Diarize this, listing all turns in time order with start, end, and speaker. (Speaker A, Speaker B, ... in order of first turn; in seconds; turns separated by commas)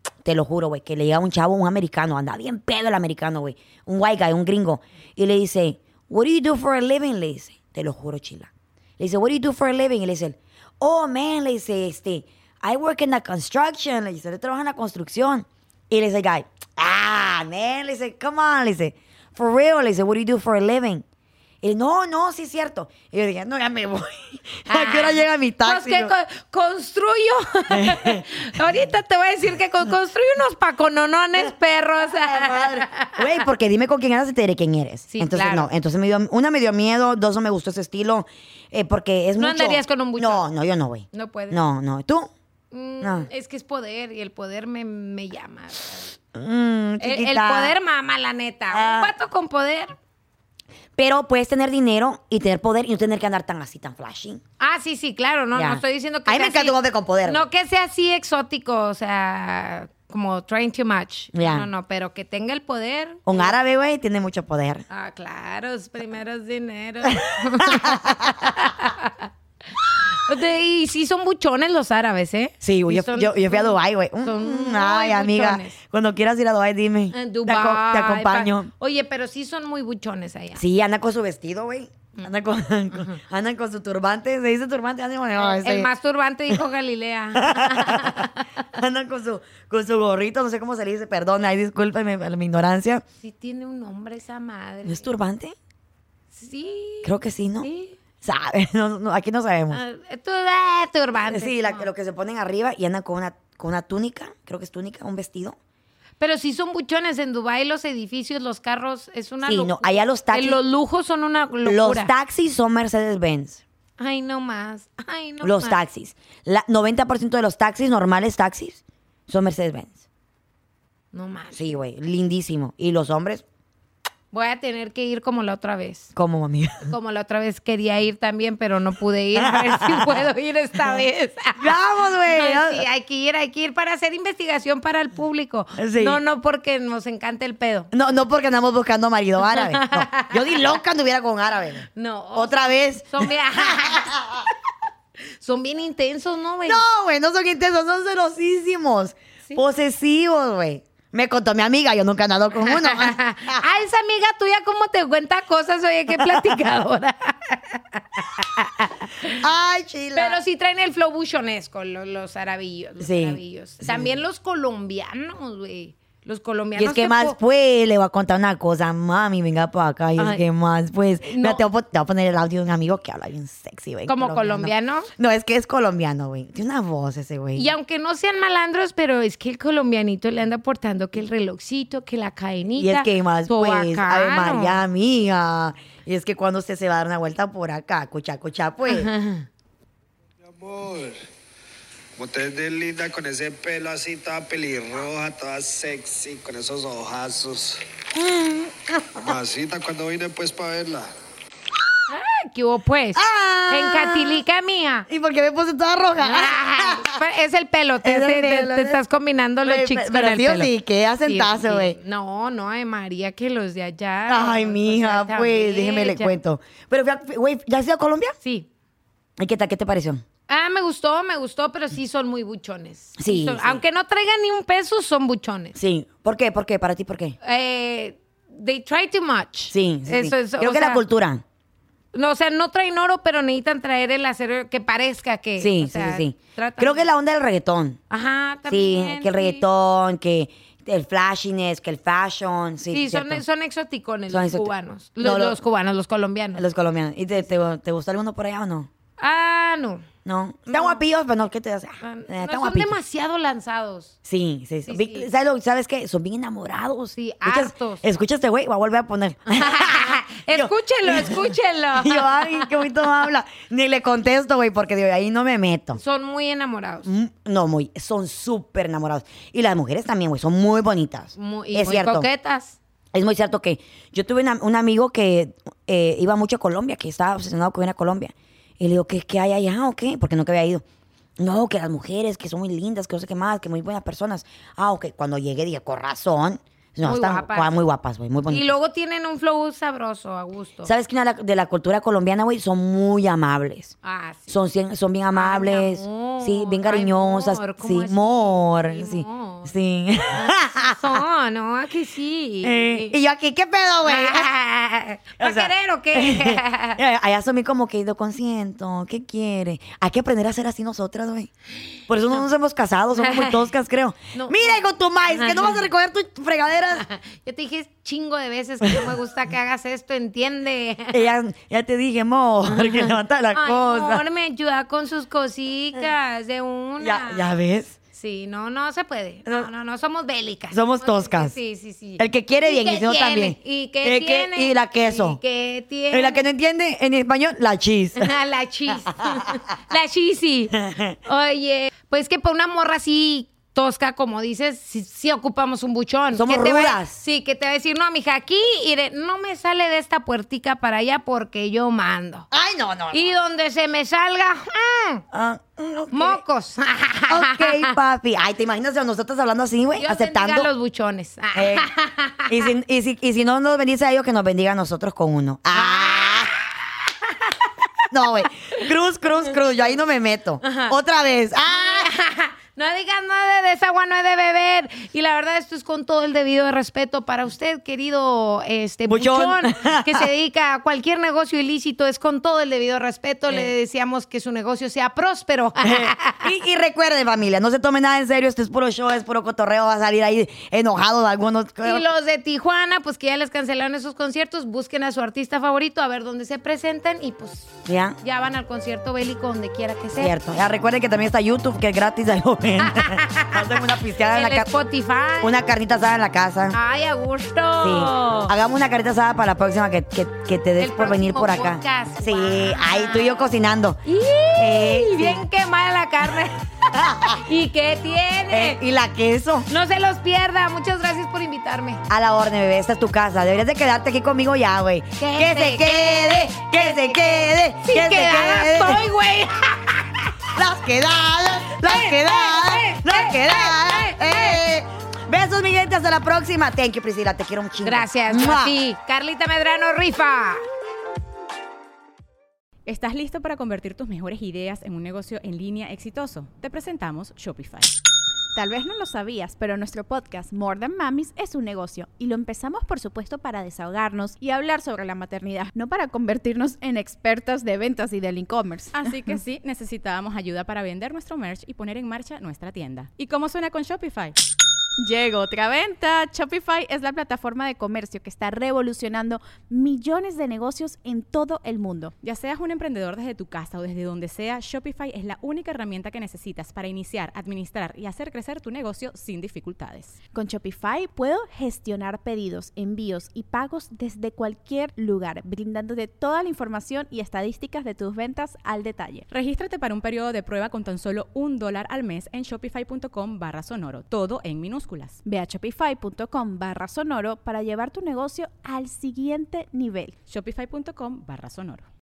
Speaker A: 0.2-21.0, Speaker A: 21.6-26.1, Speaker B: 24.7-33.2, Speaker A: 27.7-28.2, Speaker A: 32.1-42.3, Speaker B: 35.1-35.7, Speaker B: 39.4-40.4, Speaker B: 41.1-41.6, Speaker B: 42.7-46.1, Speaker A: 43.0-43.3, Speaker A: 46.3-47.7, Speaker B: 47.0-49.9, Speaker A: 48.7-49.1, Speaker A: 51.0-54.4, Speaker B: 54.6-63.5, Speaker A: 55.5-57.5, Speaker A: 61.3-61.7, Speaker A: 63.2-64.8, Speaker B: 64.9-69.3, Speaker A: 67.1-68.5, Speaker B: 70.2-75.8, Speaker A: 72.6-78.7, Speaker B: 77.1-80.6, Speaker A: 80.6-85.9, Speaker B: 82.9-83.2, Speaker B: 85.4-88.5, Speaker A: 87.3-93.0, Speaker B: 93.2-95.1, Speaker A: 94.8-95.5, Speaker B: 96.3-98.0, Speaker A: 97.0-97.7, Speaker A: 98.2-99.8, Speaker B: 99.7-101.9, Speaker A: 101.3-105.6, Speaker B: 106.2-112.1, Speaker A: 109.4-110.6, Speaker A: 111.6-113.6, Speaker B: 114.0-115.8, Speaker A: 115.4-120.0, Speaker B: 121.1-121.8, Speaker A: 121.5-123.4, Speaker B: 124.3-126.1, Speaker A: 126.1-126.9, Speaker B: 126.9-137.9, Speaker A: 129.3-130.2, Speaker A: 131.6-132.8, Speaker A: 135.8-136.2, Speaker A: 137.9-144.4, Speaker B: 139.4-140.7, Speaker B: 141.9-144.2, Speaker B: 145.4-146.8, Speaker A: 146.6-153.6, Speaker B: 152.6-159.4, Speaker A: 156.1-156.5, Speaker A: 159.4-160.4, Speaker B: 160.1-167.3, Speaker A: 163.0-164.2, Speaker A: 166.8-177.7, Speaker B: 170.2-170.4, Speaker B: 171.2-171.6, Speaker B: 174.1-175.1, Speaker B: 177.6-184.8, Speaker A: 182.8-189.1, Speaker B: 188.9-189.4, Speaker C: 190.4-191.2, Speaker C: 192.2-197.8, Speaker A: 198.2-199.2, Speaker C: 199.2-201.1, Speaker B: 202.1-205.1, Speaker A: 203.1-204.4, Speaker A: 205.1-207.2, Speaker B: 206.2-210.7, Speaker A: 208.0-209.0, Speaker A: 209.6-212.0, Speaker B: 211.2-216.3, Speaker A: 214.3-218.3, Speaker B: 218.4-218.7, Speaker A: 219.4-220.2, Speaker B: 220.5-225.7, Speaker A: 223.2-223.8, Speaker A: 225.7-227.4, Speaker B: 227.4-231.0, Speaker A: 229.7-231.4, Speaker B: 232.1-237.0, Speaker A: 235.6-238.0, Speaker B: 238.1-239.6, Speaker A: 238.7-243.4, Speaker B: 242.9-246.6, Speaker A: 244.3-245.6, Speaker A: 246.6-248.9, Speaker B: 249.2-250.1, Speaker A: 250.2-252.9, Speaker B: 250.7-251.0, Speaker B: 252.0-254.1, Speaker A: 254.2-266.0, Speaker B: 254.8-255.3, Speaker B: 257.1-258.0, Speaker B: 259.5-262.8, Speaker B: 266.0-267.1, Speaker A: 267.0-272.3, Speaker B: 271.4-272.8, Speaker A: 273.1-280.8, Speaker A: 281.4-288.8, Speaker B: 287.0-287.8, Speaker B: 288.5-290.9, Speaker A: 290.8-293.9, Speaker B: 294.0-294.6, Speaker A: 294.5-301.2, Speaker B: 295.3-299.7, Speaker B: 300.3-303.2, Speaker A: 302.6-304.5, Speaker B: 304.0-307.0, Speaker A: 305.4-311.5, Speaker A: 312.1-317.1, Speaker B: 313.1-313.6, Speaker B: 314.3-315.8, Speaker B: 317.0-321.2, Speaker A: 321.1-324.2, Speaker B: 322.7-327.4, Speaker A: 327.0-328.0, Speaker B: 328.1-336.4, Speaker A: 330.7-331.6, Speaker A: 332.2-335.4, Speaker A: 336.1-338.3, Speaker B: 338.2-352.5, Speaker A: 340.7-341.2, Speaker A: 346.3-347.2, Speaker A: 352.5-353.4, Speaker B: 353.1-355.2, Speaker A: 355.3-356.4, Speaker B: 356.1-357.9, Speaker A: 357.3-360.7, Speaker B: 360.0-362.7, Speaker A: 361.5-361.9, Speaker A: 362.4-366.5, Speaker B: 365.7-366.7, Speaker B: 367.2-367.5, Speaker A: 368.1-372.1, Speaker B: 370.6-370.9, Speaker B: 371.7-386.4, Speaker A: 379.1-380.3, Speaker A: 385.8-392.1, Speaker B: 391.8-397.7, Speaker A: 397.9-398.2, Speaker B: 398.2-400.3, Speaker A: 400.2-404.7, Speaker B: 402.8-405.6, Speaker A: 405.4-406.8, Speaker B: 406.7-408.5, Speaker A: 407.8-414.0, Speaker B: 410.8-413.5, Speaker B: 414.1-416.6, Speaker A: 414.6-415.4, Speaker A: 416.9-417.4, Speaker B: 417.2-418.8, Speaker A: 418.5-419.7, Speaker B: 419.7-422.0, Speaker A: 422.1-429.0, Speaker B: 425.2-430.3, Speaker A: 430.5-438.8, Speaker B: 431.8-434.6, Speaker B: 437.8-440.6, Speaker D: 442.9-447.9, Speaker E: 448.5-459.1, Speaker D: 459.0-464.3, Speaker E: 465.0-472.1, Speaker D: 472.2-480.2, Speaker E: 480.3-489.2, Speaker D: 489.3-495.2, Speaker E: 495.2-500.2, Speaker D: 500.3-501.9